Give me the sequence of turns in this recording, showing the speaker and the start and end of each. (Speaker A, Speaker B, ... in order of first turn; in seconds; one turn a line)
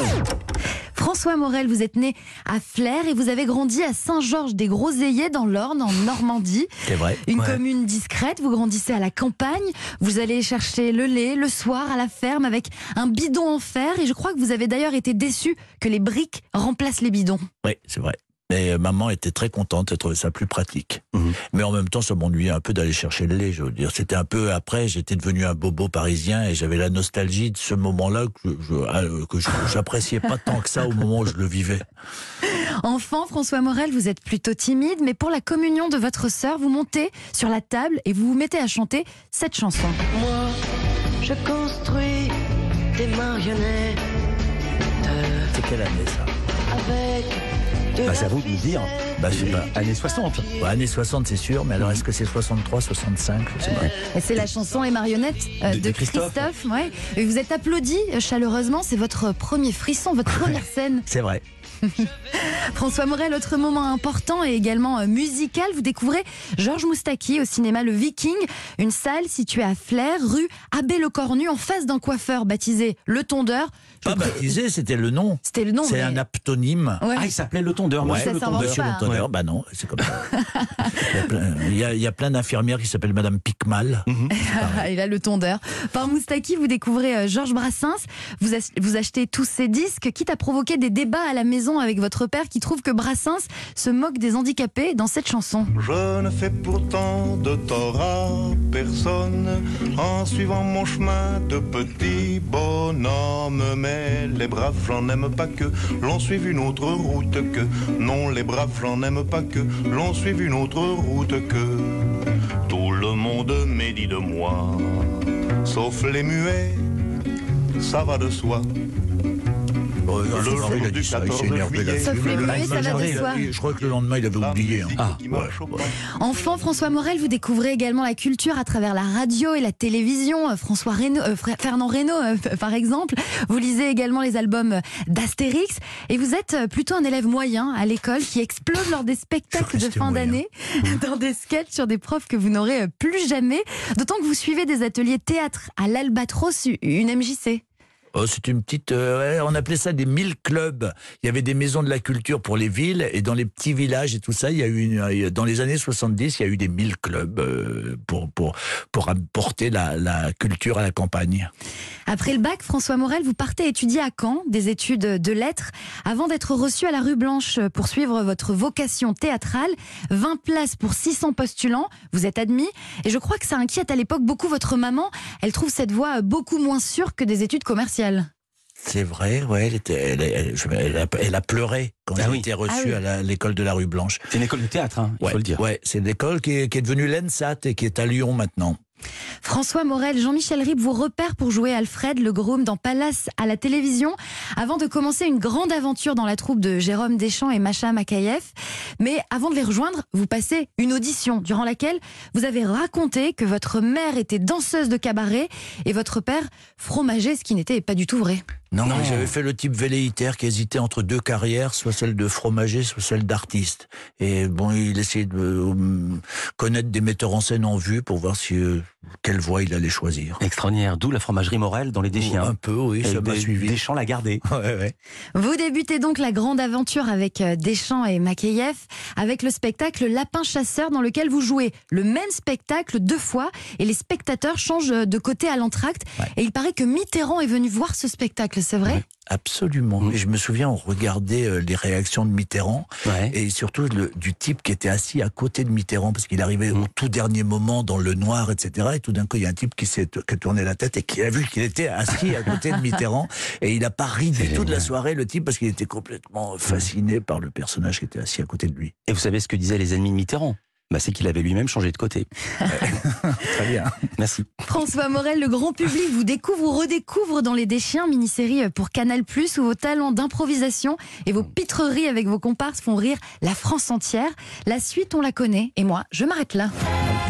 Speaker A: 0.9-6.7
Speaker B: 6.8-7.2
Speaker A: 7.2-17.4
Speaker B: 17.6-31.8
Speaker A: 32.5-40.0
Speaker C: 40.1-40.6
Speaker C: 41.2-42.4
Speaker C: 42.9-44.0
Speaker C: 45.0-45.5
Speaker B: 45.5-46.3
Speaker C: 46.7-47.4
Speaker C: 48.0-49.1
Speaker D: 48.0-50.5
Speaker B: 49.2-49.7
Speaker B: 50.6-53.9
Speaker D: 51.8-52.0
Speaker A: 54.1-61.1
Speaker D: 55.6-56.5
Speaker B: 61.1-61.4
Speaker A: 61.8-74.5
Speaker B: 74.0-77.0
Speaker A: 75.4-76.2
Speaker A: 77.0-77.3
Speaker D: 77.2-79.2
Speaker B: 78.0-80.3
Speaker A: 78.2-79.1
Speaker A: 80.2-81.1
Speaker B: 80.8-84.9
Speaker D: 84.1-84.3
Speaker A: 84.3-95.7
Speaker E: 95.8-116.8
Speaker E: 117.8-118.7
Speaker B: 120.0-125.5
Speaker E: 120.3-126.0
Speaker A: 122.0-123.4
Speaker D: 122.4-123.2
Speaker A: 126.1-147.6
Speaker B: 139.5-140.4
Speaker B: 148.1-161.5
Speaker A: 162.1-178.3
Speaker B: 178.8-184.3
Speaker D: 182.2-182.5
Speaker A: 182.7-183.0
Speaker D: 184.3-185.6
Speaker B: 185.2-188.8
Speaker A: 189.4-208.4
Speaker B: 208.7-220.4
Speaker D: 208.8-209.3
Speaker D: 220.4-224.4
Speaker B: 222.1-223.8
Speaker B: 224.4-224.9
Speaker A: 225.3-239.0
Speaker B: 239.3-258.9
Speaker D: 243.1-243.3
Speaker D: 254.4-254.9
Speaker D: 259.1-263.0
Speaker B: 262.7-263.9
Speaker D: 263.5-264.5
Speaker A: 264.6-276.7